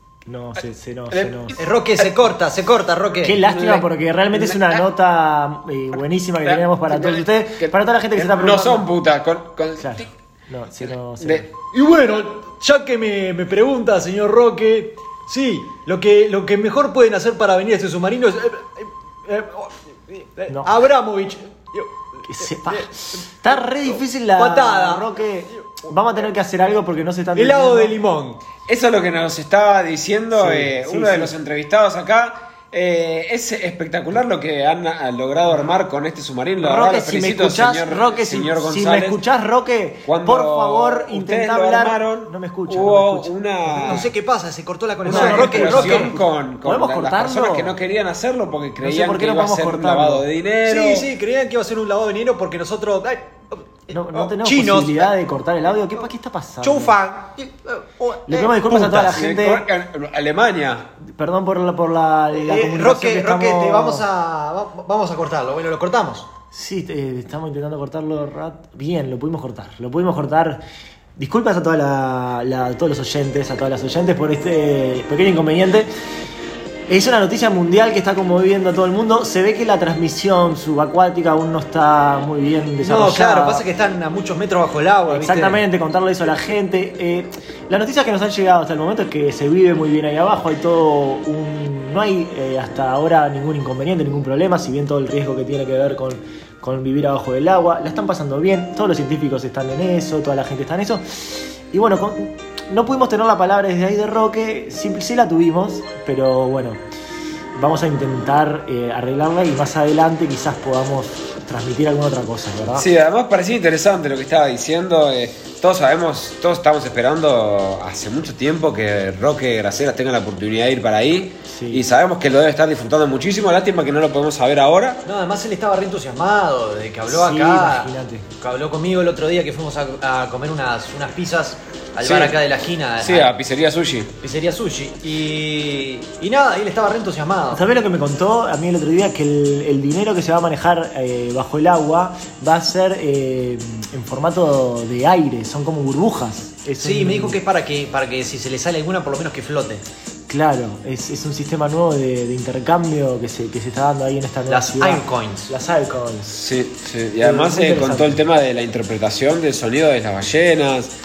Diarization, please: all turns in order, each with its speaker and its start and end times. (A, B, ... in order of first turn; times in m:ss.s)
0:00.3-0:01.6 A
0:01.1-0:01.5 B
0:01.6-0:03.4 C
0:03.2-0:08.9 A
0:03.4-0:04.8 B
0:06.4-0:10.1 B
0:09.8-0:11.5 A
0:11.2-0:11.5 B
0:11.7-0:22.9 C
0:20.5-0:20.7 A
0:22.3-0:28.0 A
0:24.4-0:25.8 C
0:27.3-0:28.4 C
0:28.7-0:39.2 B
0:30.3-0:31.3 A
0:36.6-0:44.0 A
0:40.0-0:44.1 B
0:43.7-0:46.1 C
0:45.0-0:47.7 A
0:45.0-0:51.1 B
0:48.8-0:50.2 A
0:50.6-0:55.1 C
0:53.9-0:56.9 A
0:56.6-0:59.0 C
0:58.3-0:59.6 A
0:58.6-1:00.9 B
1:01.0-1:04.0 A
1:02.3-1:06.3 C
1:06.5-1:10.6 A
1:11.2-1:15.9 A
1:16.9-1:23.6 A
1:22.8-1:25.6 C
1:25.1-1:46.8 A
1:47.5-1:52.9 A
1:52.7-2:05.0 B
2:01.5-2:01.8 A
2:05.0-2:13.3 C
2:07.1-2:08.2 A
2:12.0-2:12.4 B
2:13.0-2:14.1 B
2:14.2-2:17.6 C
2:17.5-2:27.4 A
2:26.8-2:29.8 C
2:30.3-2:36.4 A
2:34.5-2:35.5 C
2:36.3-2:40.9 B
2:37.2-2:38.2 A